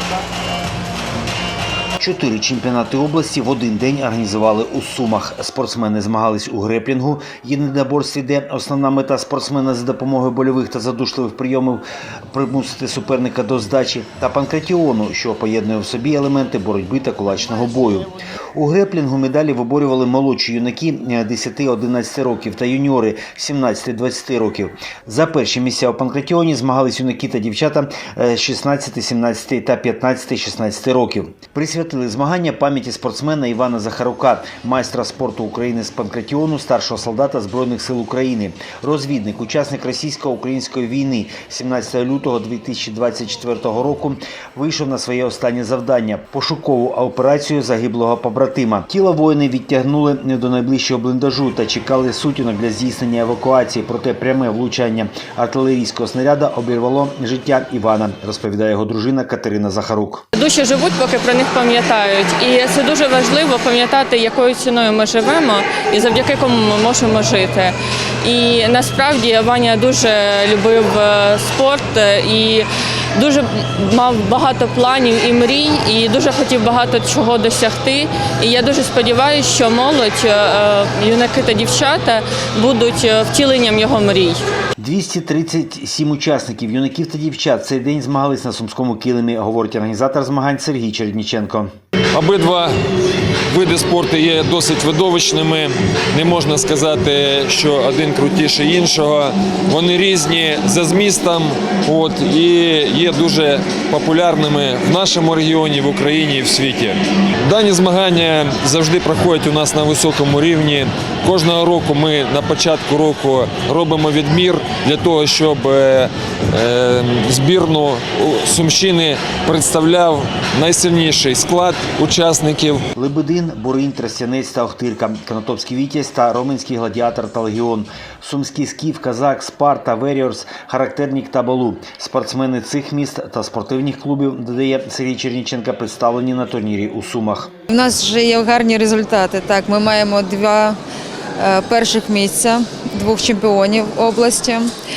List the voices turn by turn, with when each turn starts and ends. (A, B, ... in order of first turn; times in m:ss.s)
0:02.0-1:00.2 A
1:00.4-1:12.7 B
1:13.2-1:24.4 B
1:24.8-1:31.7 A
1:32.1-1:32.7 C
1:33.5-2:02.8 C
2:03.0-2:17.5 A
2:17.7-2:20.8 D
2:21.4-2:24.7 D